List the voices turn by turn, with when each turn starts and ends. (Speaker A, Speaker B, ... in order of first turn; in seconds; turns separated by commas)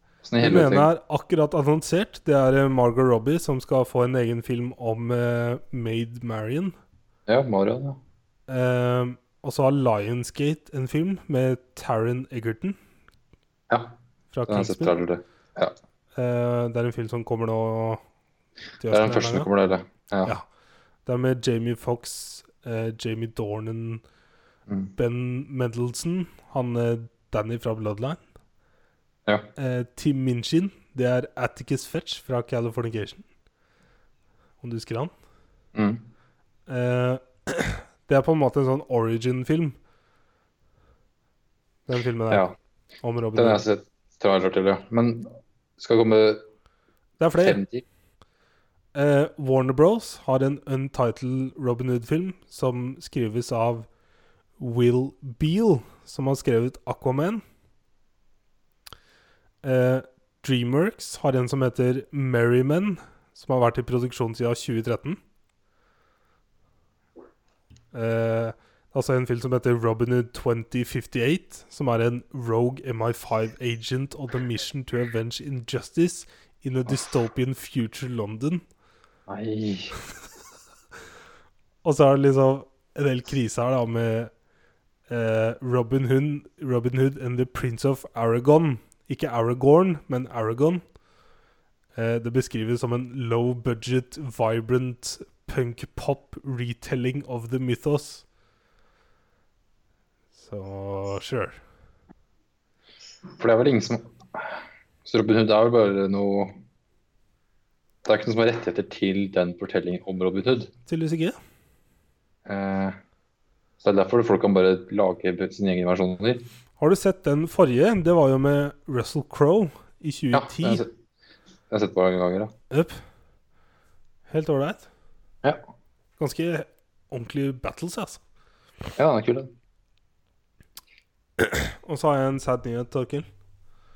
Speaker A: 0.2-0.9, Speaker B: 0.4-6.8, Speaker A: 7.3-8.0, Speaker B: 8.5-12.8, Speaker A: 13.7-14.0, Speaker B: 14.3-14.9, Speaker A: 14.5-15.8, Speaker B: 16.2-18.0, Speaker B: 18.8-19.5, Speaker A: 18.9-20.4, Speaker B: 21.1-24.0, Speaker B: 25.0-28.2, Speaker B: 29.6-33.3, Speaker B: 34.6-35.1, Speaker A: 35.8-36.0, Speaker B: 36.7-39.8, Speaker B: 41.9-42.5, Speaker B: 43.0-43.6, Speaker A: 43.4-46.5, Speaker B: 47.2-47.6, Speaker A: 47.4-47.9, Speaker B: 49.0-53.9, Speaker B: 54.6-57.4, Speaker B: 59.6-65.2, Speaker B: 67.9-78.6, Speaker A: 79.3-80.0, Speaker B: 81.8-84.3, Speaker B: 85.1-90.8, Speaker B: 92.0-98.2, Speaker B: 100.4-101.6, Speaker A: 103.4-106.6, Speaker A: 108.0-110.7, Speaker B: 110.9-111.4, Speaker A: 112.5-113.0, Speaker A: 113.8-116.5, Speaker B: 116.8-120.8, Speaker A: 120.3-120.9, Speaker A: 121.7-122.5, Speaker B: 122.7-123.0, Speaker B: 124.3-124.9, Speaker B: 126.2-128.2, Speaker A: 129.0-129.5, Speaker B: 131.4-133.3